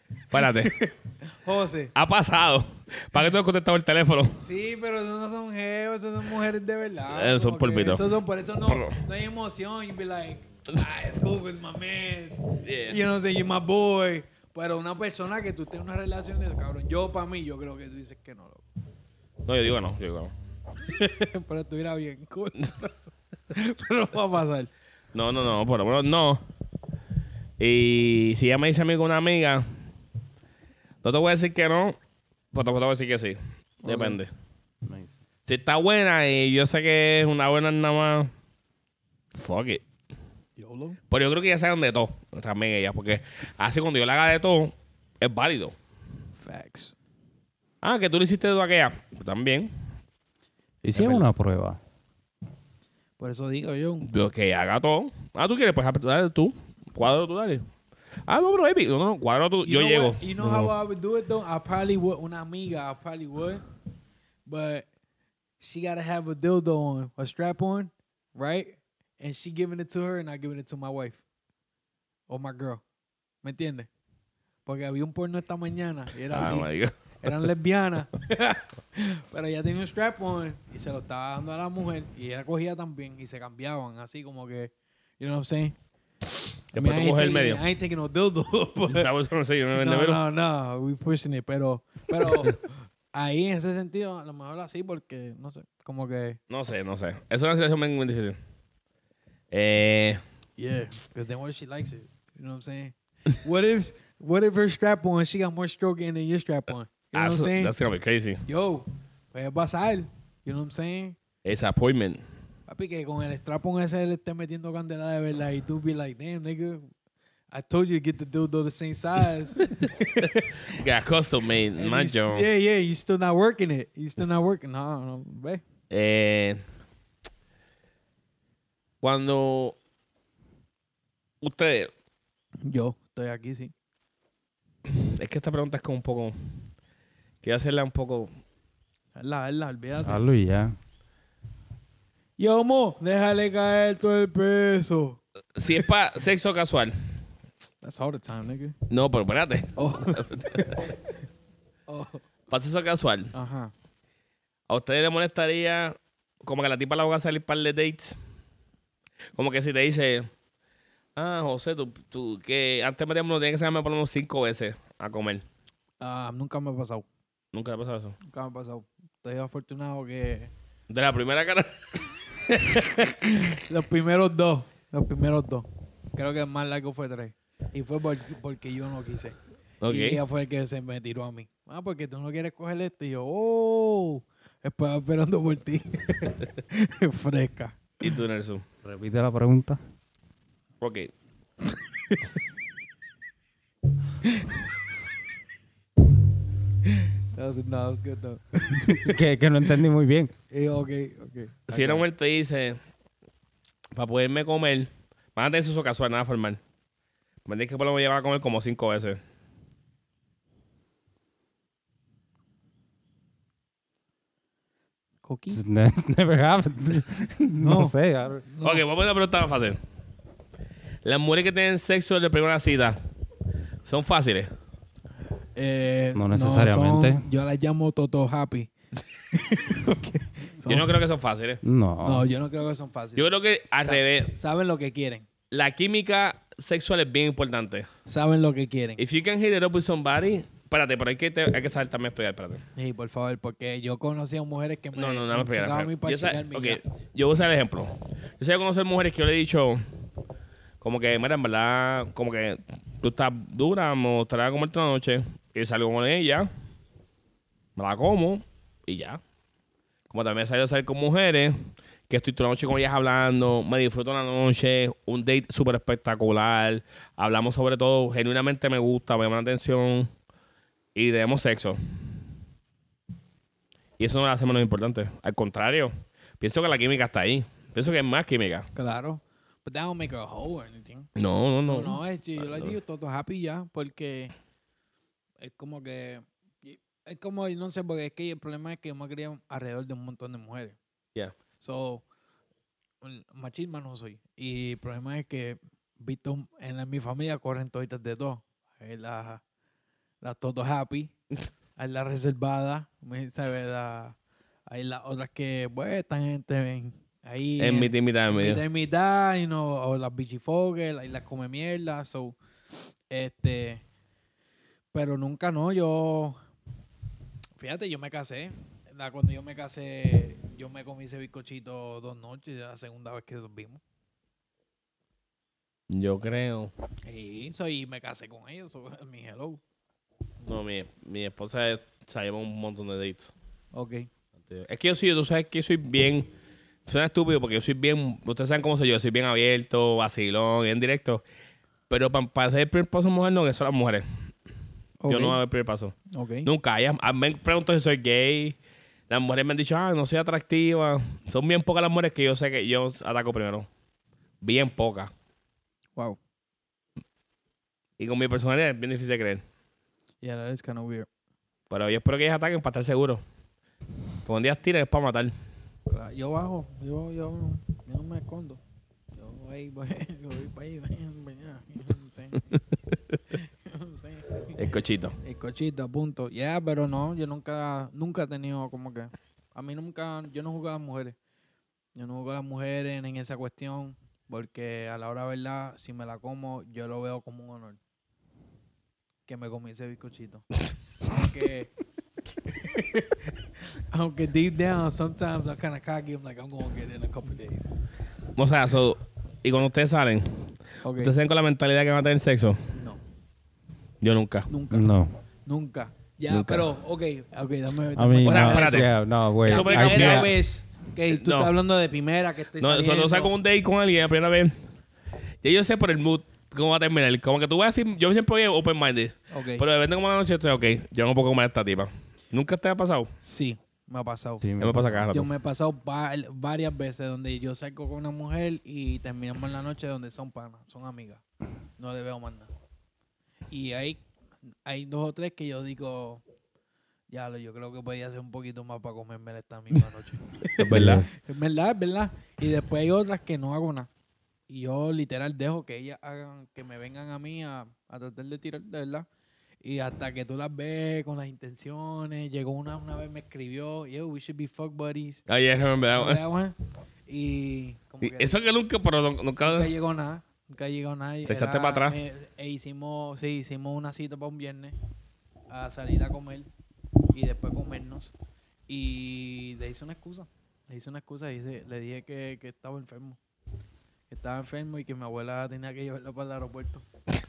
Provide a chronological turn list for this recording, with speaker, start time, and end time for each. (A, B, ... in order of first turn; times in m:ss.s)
0:00.3-0:00.7 A
0:00.3-0:01.9 B
0:01.9-0:04.4 A
0:04.4-0:18.6 B
0:07.1-0:08.1 A
0:08.6-0:09.0 A
0:12.6-0:13.0 A
0:19.4-0:20.3 A
0:20.8-0:23.0 B
0:23.5-0:24.7 B
0:25.1-0:26.4 A
0:27.6-0:29.6 A
0:31.0-0:32.0 A
0:32.5-0:34.3 A
0:33.8-0:34.2 B
0:34.8-0:35.1 C
0:35.4-0:38.3 A
0:39.3-0:39.8 A
0:40.6-0:41.0 B
0:41.1-0:45.7 A
0:46.4-0:46.9 B
0:47.8-0:49.7 A
0:50.8-0:51.8 C
0:50.9-0:51.2 A
0:53.2-0:54.1 B
0:54.0-0:57.6 A
0:58.3-1:00.7 A
0:59.6-1:03.6 B
1:04.5-1:04.9 B
1:05.6-1:11.2 B
1:12.3-1:12.8 B
1:13.4-1:13.9 B
1:14.6-1:16.7 B
1:16.3-1:17.5 A
1:17.2-1:25.8 B
1:26.7-1:27.6 A
1:26.7-1:29.1 B
1:28.9-1:30.2 A
1:29.8-1:36.4 B
1:36.5-1:38.4 A
1:39.5-1:40.2 A
1:40.6-1:47.7 B
1:47.1-1:48.4 A
1:48.4-1:51.2 B
1:51.4-1:52.2 A
1:52.7-1:56.9 B
1:57.5-2:00.8 B
1:59.8-2:02.5 A
2:01.8-2:05.6 B
2:05.9-2:06.6 A
2:09.0-2:09.8 A
2:11.4-2:11.9 A
2:12.6-2:13.7 B
2:14.9-2:16.3 A
2:17.4-2:18.3 A
2:19.2-2:20.2 B
2:20.0-2:20.7 C
2:22.4-2:25.2 B
2:25.6-2:26.9 A
2:27.8-2:28.8 B
2:28.9-2:30.8 A
2:29.8-2:31.0 B
2:31.9-2:32.3 B
2:32.5-2:33.3 A
2:33.3-2:33.7 B
2:34.7-2:38.2 A
2:39.4-2:40.3 A
2:41.2-2:45.4 A
2:46.0-2:47.0 B
2:47.5-2:48.2 A
2:48.2-2:50.5 B
2:50.9-2:52.0 A
2:52.5-3:08.1 B
2:59.8-3:00.2 A
3:08.0-3:08.6 A
3:08.8-3:09.8 C
3:10.8-3:11.1 A
3:11.6-3:12.4 B
3:14.2-3:14.9 B
3:16.8-3:19.2 B
3:18.8-3:20.3 C
3:20.5-3:22.0 B
3:21.7-3:22.8 A
3:23.9-3:26.6 A
3:27.4-3:29.2 A
3:35.2-3:35.6 B
3:35.5-3:38.4 C
3:37.6-3:38.8 B
3:38.6-3:39.8 A
3:41.0-3:43.0 A
3:43.8-3:44.5 A
3:45.6-3:48.7 B
3:46.1-3:47.2 C
3:49.3-3:50.9 B
3:50.6-3:51.6 A
3:51.6-3:52.3 C
3:52.0-3:55.2 B
3:53.2-3:54.3 A
3:55.5-3:57.9 A
3:58.0-3:59.0 B
3:59.0-4:02.6 A
4:02.8-4:06.8 B
4:04.9-4:09.8 A
4:10.8-4:16.5 A
4:17.8-4:19.2 A
4:20.1-4:21.6 A
4:22.1-4:30.1 A
4:30.9-4:31.8 A
4:34.0-4:38.7 A
4:38.7-4:41.1 B
4:41.2-4:42.7 A
4:41.6-4:44.3 B
4:45.4-4:50.8 B
4:51.6-4:52.0 B
4:53.0-4:59.4 B
5:00.2-5:01.1 B
5:01.8-5:04.2 B
5:04.7-5:13.8 B
5:07.6-5:08.6 A
5:14.9-5:16.4 B
5:17.6-5:23.8 B
5:25.9-5:26.7 A
5:27.0-5:29.6 B
5:30.4-5:33.3 A
5:33.7-5:34.1 B
5:34.5-5:36.3 A
5:36.9-5:41.2 A
5:41.9-5:44.0 A
5:45.0-5:45.4 B
5:45.1-5:48.6 A
5:46.1-5:46.5 B
5:49.1-5:53.7 A
5:54.4-5:55.1 A
5:58.0-5:59.4 A
6:00.2-6:01.1 B
6:01.7-6:03.2 A
6:04.2-6:05.3 A
6:05.9-6:08.6 B
6:09.2-6:12.6 B
6:12.9-6:13.2 A
6:13.3-6:14.6 B
6:14.6-6:15.1 A
6:15.2-6:21.2 B
6:22.0-6:27.8 B
6:29.3-6:30.5 B
6:31.0-6:31.7 B
6:32.4-6:37.7 B
6:38.4-6:42.6 A
6:40.8-6:41.1 B
6:44.0-6:44.5 A
6:44.5-6:44.9 B
6:44.7-6:45.1 C
6:45.4-6:48.9 B
6:46.3-6:46.7 A
6:48.0-6:50.3 C
6:48.2-6:48.9 A
6:49.4-6:53.3 B
6:49.4-6:50.3 A
6:51.1-6:51.5 A
6:52.6-6:54.5 A
6:55.4-7:03.1 A
6:59.3-6:59.6 B
7:03.2-7:04.5 B
7:04.4-7:05.1 C
7:04.6-7:05.3 A
7:05.1-7:11.2 B
7:11.8-7:12.5 B
7:13.5-7:14.0 B
7:14.6-7:16.2 B
7:17.1-7:23.9 B
7:20.5-7:21.0 A
7:20.7-7:21.1 C
7:24.5-7:29.1 B
7:29.6-7:35.2 B
7:35.3-7:36.2 A
7:36.0-7:36.6 B
7:37.1-7:38.4 B
7:38.0-7:39.7 A
7:39.4-7:44.8 B
7:41.2-7:42.0 A
7:45.5-7:46.5 B
7:47.1-7:48.1 B
7:48.7-7:53.2 B
7:54.1-7:56.8 B